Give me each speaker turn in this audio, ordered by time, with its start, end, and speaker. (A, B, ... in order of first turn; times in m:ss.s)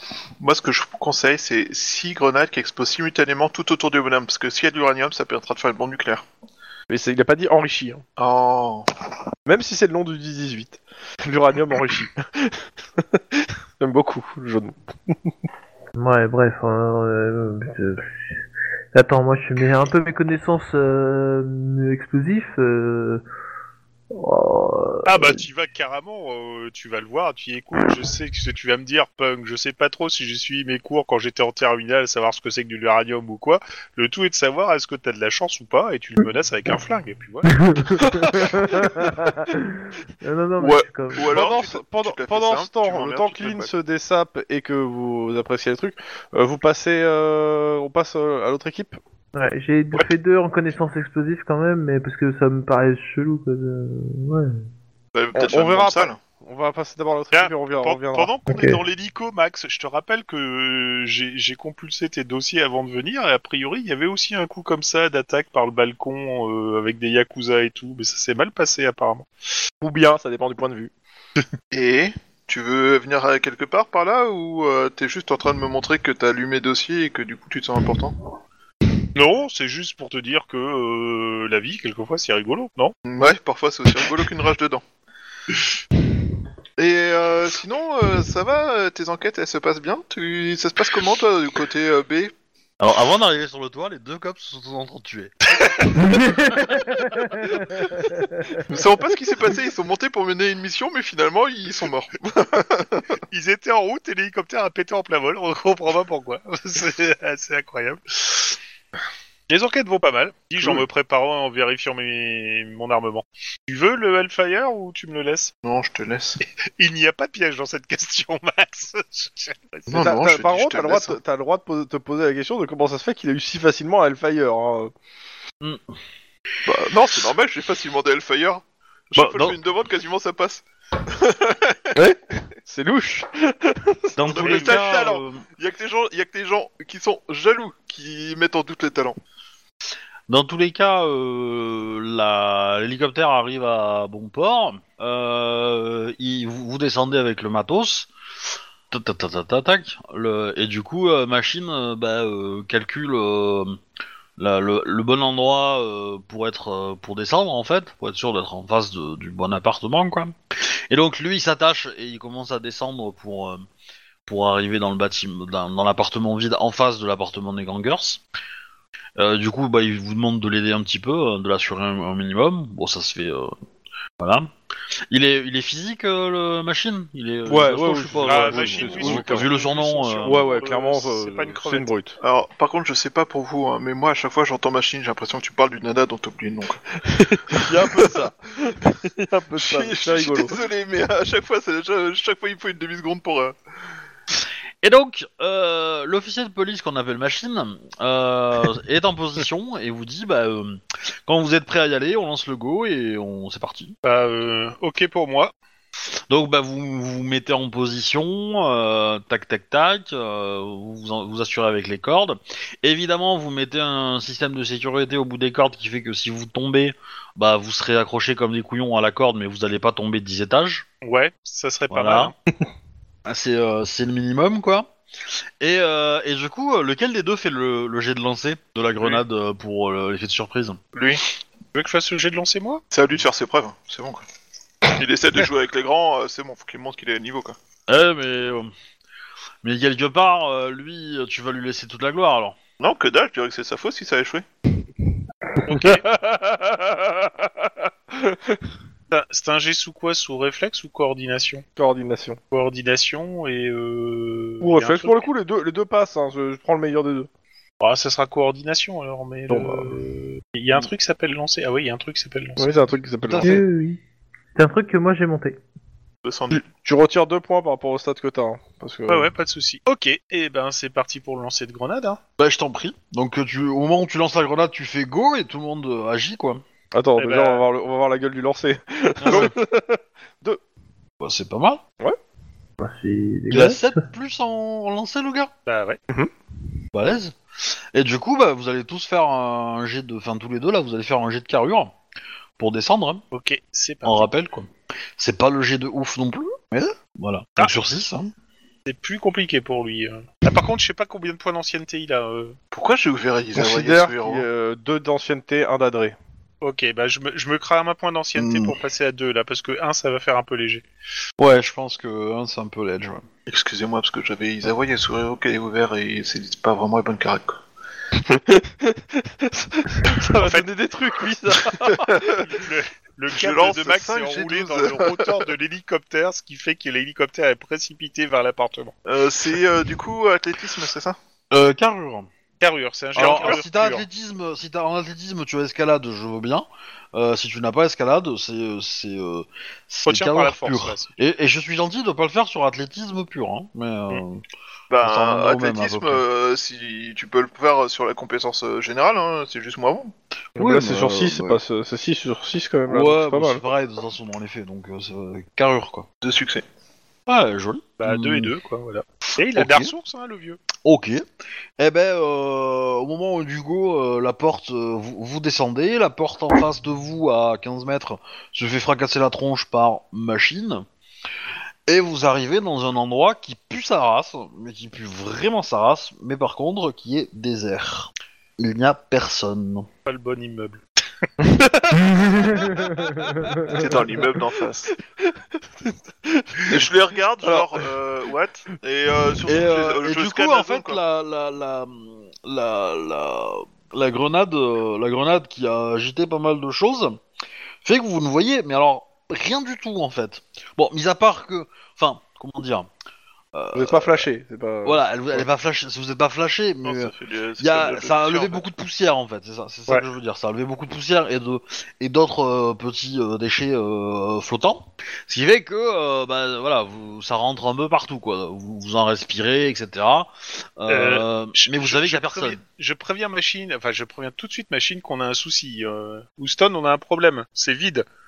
0:00.4-0:06.2 A
0:06.9-0:08.0 B
0:08.2-0:08.9 A
0:09.4-0:14.8 B
0:16.0-0:18.2 C
0:18.9-0:23.2 C
0:24.1-0:25.4 C
0:25.0-0:38.1 D
0:37.7-0:41.3 C
0:38.2-0:39.1 B
0:40.6-0:43.7 A
0:41.2-0:49.0 B
0:49.3-0:54.7 C
0:55.1-0:56.2 A
0:55.3-0:58.3 B
0:57.3-1:09.3 D
0:58.5-0:58.8 C
1:09.8-1:10.9 B
1:11.7-1:18.2 A
1:19.1-1:23.0 D
1:23.0-1:24.8 A
1:26.8-1:32.3 A
1:32.8-1:35.3 E
1:36.1-1:38.6 C
1:38.6-1:43.2 A
1:43.3-1:48.6 D
1:49.5-1:55.5 D
1:55.6-1:56.4 A
1:56.8-2:00.0 D
1:59.9-2:01.2 A
1:59.9-2:04.9 B
2:06.7-2:11.9 A
2:09.1-2:09.6 E
2:12.0-2:14.3 B
2:14.2-2:15.4 E
2:14.2-2:19.2 A
2:14.4-2:15.0 D
2:20.3-2:28.1 E
2:28.9-2:33.8 E
2:34.4-2:40.3 E
2:40.9-2:43.6 E
2:44.2-2:48.2 E
2:49.2-2:53.5 E
2:54.2-2:54.5 E
2:55.1-3:00.4 E
2:57.4-2:59.5 B
2:58.2-3:01.9 D
3:00.2-3:02.2 B
3:02.2-3:06.8 A
3:07.0-3:10.6 B
3:07.7-3:08.2 E
3:07.8-3:08.2 A
3:09.6-3:13.6 A
3:14.8-3:24.0 E
3:24.0-3:25.5 D
3:26.3-3:40.8 E
3:41.0-3:42.3 D
3:41.9-3:42.3 E
3:43.2-3:44.9 E
3:45.6-3:50.8 E
3:50.9-3:51.2 A
3:51.7-3:52.8 D
3:52.9-3:54.2 A
3:54.9-3:57.6 A
3:57.9-3:58.7 E
3:59.6-4:02.6 E
4:02.8-4:04.4 A
4:05.7-4:06.0 D
4:05.7-4:08.6 B
4:09.1-4:11.6 D
4:11.8-4:12.4 B
4:12.5-4:15.2 D
4:14.6-4:17.3 B
4:17.8-4:22.8 D
4:19.5-4:20.0 B
4:22.6-4:23.6 B
4:23.2-4:23.6 E
4:23.4-4:24.0 C
4:24.5-4:25.6 C
4:26.2-4:26.6 A
4:26.5-4:29.3 B
4:29.1-4:32.2 D
4:32.4-4:36.6 E
4:36.9-4:40.6 B
4:37.2-4:37.7 D
4:39.2-4:39.5 D
4:39.2-4:39.5 E
4:41.2-4:41.8 E
4:42.8-4:44.0 C
4:43.5-4:45.5 E
4:45.7-4:46.0 D
4:46.9-4:47.4 E
4:47.9-4:51.9 E
4:52.6-4:53.2 E
4:53.3-4:54.3 D
4:54.0-4:58.3 E
4:58.9-5:02.6 D
5:02.7-5:04.4 A
5:03.5-5:06.2 B
5:06.6-5:10.8 D
5:08.4-5:08.7 A
5:11.4-5:13.2 E
5:13.5-5:17.6 A
5:18.2-5:22.4 B
5:20.4-5:20.7 D
5:22.2-5:28.9 D
5:23.3-5:25.4 A
5:29.0-5:31.2 A
5:31.5-5:32.3 E
5:32.6-5:34.0 D
5:33.2-5:44.4 E
5:33.2-5:33.6 A
5:40.0-5:41.1 D
5:44.9-5:50.1 A
5:45.0-5:46.2 E
5:50.6-5:51.6 E
5:50.6-5:53.6 B
5:52.9-5:56.1 E
5:56.2-5:56.6 A
5:57.3-5:58.5 E
5:58.0-6:00.6 D
5:59.5-5:59.9 E
6:00.8-6:01.2 E
6:01.8-6:10.8 E
6:11.9-6:19.9 E
6:20.0-6:20.8 D
6:21.4-6:23.0 B
6:22.4-6:23.6 C
6:23.7-6:24.9 A
6:25.2-6:26.9 B
6:26.7-6:31.0 A
6:27.4-6:27.9 B
6:29.5-6:37.2 E
6:37.8-6:42.9 E
6:43.5-6:44.2 E
6:43.7-6:45.5 B
6:44.8-7:02.6 E
6:46.8-6:48.7 A
7:00.9-7:08.0 D